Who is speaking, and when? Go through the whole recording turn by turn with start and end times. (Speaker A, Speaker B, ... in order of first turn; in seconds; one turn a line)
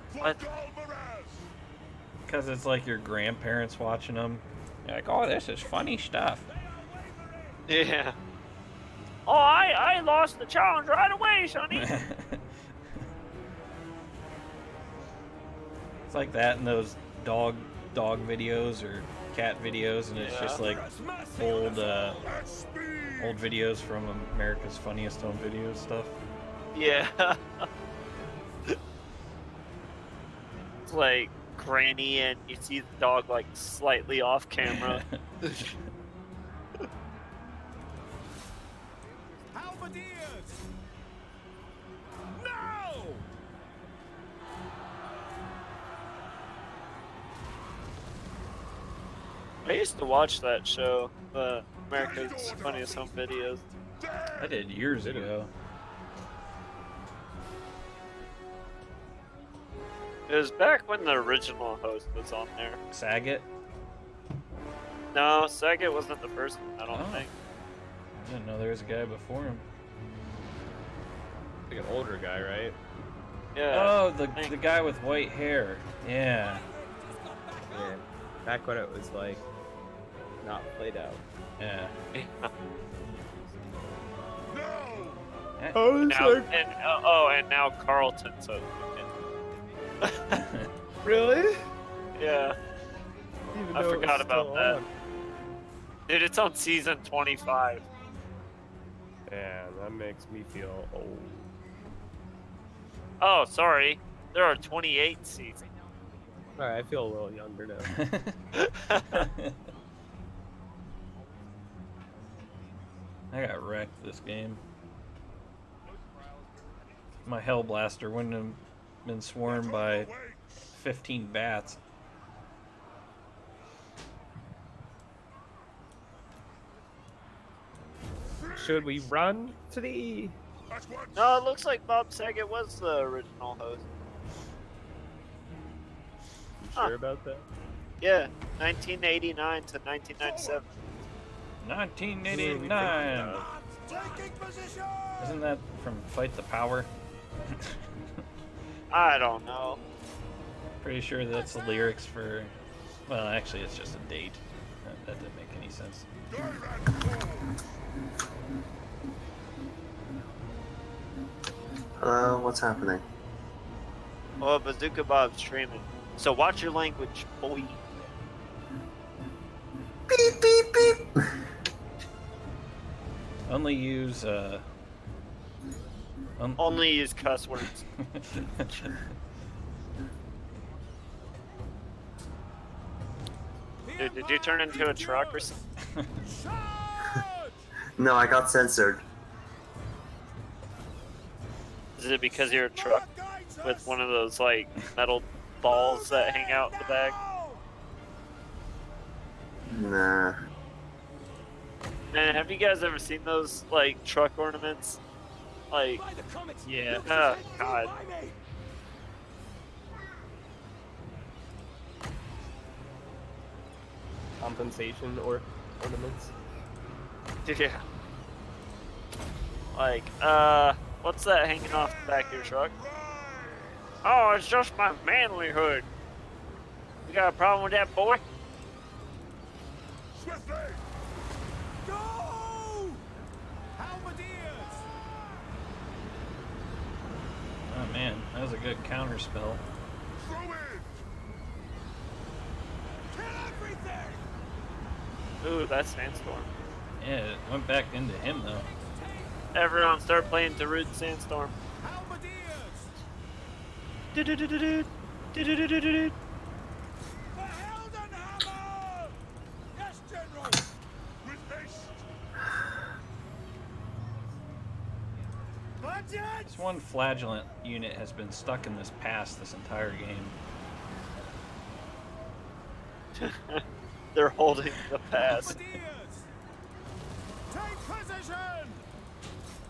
Speaker A: 0.2-0.4
Speaker B: 2.3-6.5
Speaker C: 6.5-7.7
Speaker A: 7.7-8.2
Speaker A: 9.3-11.9
Speaker B: 11.7-12.5
Speaker B: 16.1-22.2
Speaker A: 20.2-20.6
Speaker C: 20.4-22.7
Speaker B: 23.2-26.2
Speaker A: 26.7-27.6
Speaker A: 30.9-35.7
Speaker B: 34.7-35.7
Speaker D: 39.0-40.2
Speaker C: 39.5-40.6
Speaker C: 42.3-43.2
Speaker A: 49.6-53.6
Speaker C: 52.3-53.7
Speaker B: 54.4-55.5
Speaker E: 55.0-55.3
Speaker A: 60.3-62.8
Speaker B: 62.9-63.5
Speaker A: 65.1-67.3
Speaker B: 66.9-67.3
Speaker B: 68.2-69.6
Speaker E: 71.7-72.8
Speaker A: 73.5-74.5
Speaker B: 73.7-76.7
Speaker C: 76.3-78.0
Speaker E: 77.7-79.4
Speaker E: 80.4-81.2
Speaker B: 81.6-82.0
Speaker A: 82.1-82.5
Speaker D: 82.8-85.1
Speaker E: 85.7-86.5
Speaker A: 86.1-89.1
Speaker D: 89.8-90.2
Speaker B: 90.3-90.7
Speaker E: 91.0-91.6
Speaker A: 92.2-92.5
Speaker E: 93.5-94.9
Speaker A: 93.7-94.8
Speaker A: 96.1-97.8
Speaker E: 99.3-101.5
Speaker A: 103.2-105.6
Speaker D: 104.1-107.4
Speaker E: 106.6-107.9
Speaker B: 107.9-108.4
Speaker A: 108.6-109.3
Speaker B: 109.2-109.6
Speaker D: 109.6-113.5
Speaker B: 113.3-114.6
Speaker D: 115.8-117.6
Speaker B: 117.2-120.2
Speaker B: 120.7-121.8
Speaker D: 122.9-123.2
Speaker D: 126.1-127.4
Speaker E: 128.5-130.4
Speaker A: 131.2-133.8
Speaker E: 136.6-137.4
Speaker A: 138.0-140.7
Speaker C: 140.2-140.6
Speaker B: 141.6-143.4
Speaker E: 142.2-143.5
Speaker C: 142.8-145.4
Speaker B: 145.2-146.9
Speaker A: 148.9-149.8
Speaker B: 150.8-152.5
Speaker B: 153.1-156.1
Speaker F: 162.0-163.0
Speaker A: 164.4-167.8
Speaker F: 170.1-171.3
Speaker B: 173.5-174.7
Speaker B: 176.4-176.8
Speaker A: 176.6-177.8
Speaker B: 178.0-179.0
Speaker C: 183.8-185.7
Speaker A: 184.0-185.5
Speaker C: 186.2-187.6
Speaker F: 188.0-189.1
Speaker A: 192.0-193.1
Speaker C: 192.7-194.0
Speaker A: 193.6-197.2
Speaker C: 195.7-197.6
Speaker F: 199.7-200.4
Speaker A: 202.1-205.0
Speaker A: 205.7-206.0
Speaker C: 206.0-208.4
Speaker E: 206.7-207.1
Speaker A: 207.1-207.9
Speaker E: 214.4-216.3
Speaker A: 217.5-217.8
Speaker A: 219.7-222.8
Speaker A: 224.0-225.8
Speaker A: 227.1-228.2
Speaker C: 231.8-233.0
Speaker C: 233.8-234.9
Speaker B: 237.7-239.6
Speaker C: 243.1-244.2
Speaker A: 245.4-246.5
Speaker B: 247.0-248.7
Speaker C: 248.5-249.5
Speaker A: 249.6-251.5
Speaker C: 251.8-252.9
Speaker A: 254.2-256.1
Speaker C: 257.3-259.2
Speaker C: 259.7-260.7
Speaker D: 264.9-265.6
Speaker C: 265.8-266.5
Speaker B: 266.5-270.4
Speaker A: 273.2-273.6
Speaker A: 274.1-275.6
Speaker C: 275.2-276.3
Speaker C: 277.5-278.9